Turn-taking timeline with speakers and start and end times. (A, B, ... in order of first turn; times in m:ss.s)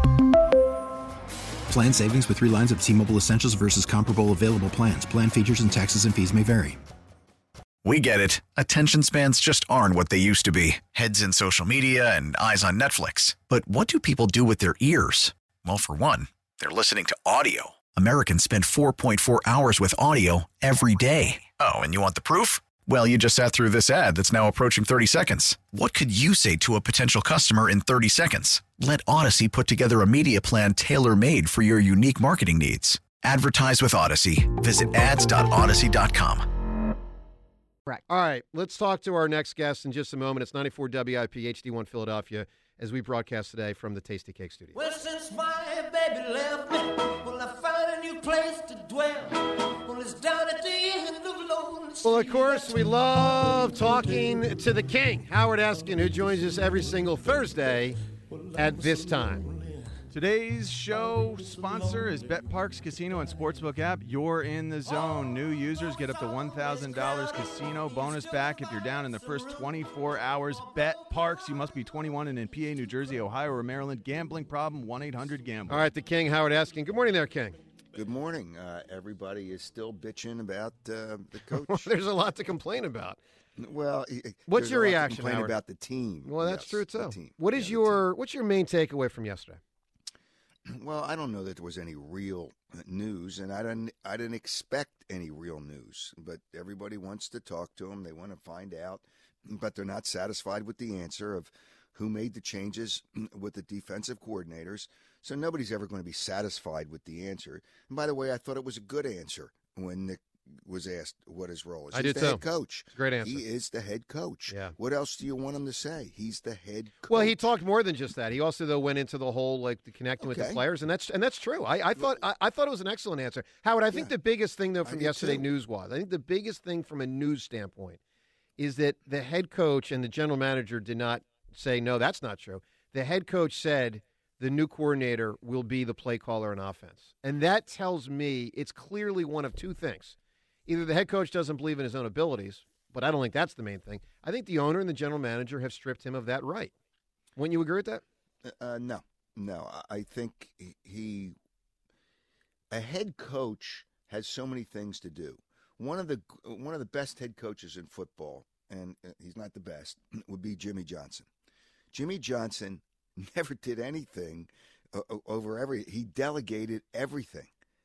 0:01.7-0:06.8 A
0:07.8-0:36.4 B
0:38.1-0:44.8 C
0:44.8-0:52.4 D
0:52.0-0:58.0 C
0:58.5-0:59.6 C
1:00.1-1:15.9 E
1:15.7-1:17.6 C
1:17.9-1:21.9 F
1:21.5-1:23.2 C
1:23.6-1:28.0 F
1:24.5-1:25.6 C
1:26.2-1:29.6 C
1:30.7-1:57.4 F
1:51.9-1:53.4 C
1:54.5-1:54.8 C
1:57.1-2:08.0 C
2:00.2-2:00.6 F
2:04.8-2:05.5 F
2:08.6-2:26.7 C
2:27.4-2:28.0 C
2:28.4-2:31.3 F
2:32.7-2:41.3 F
2:41.9-2:47.5 F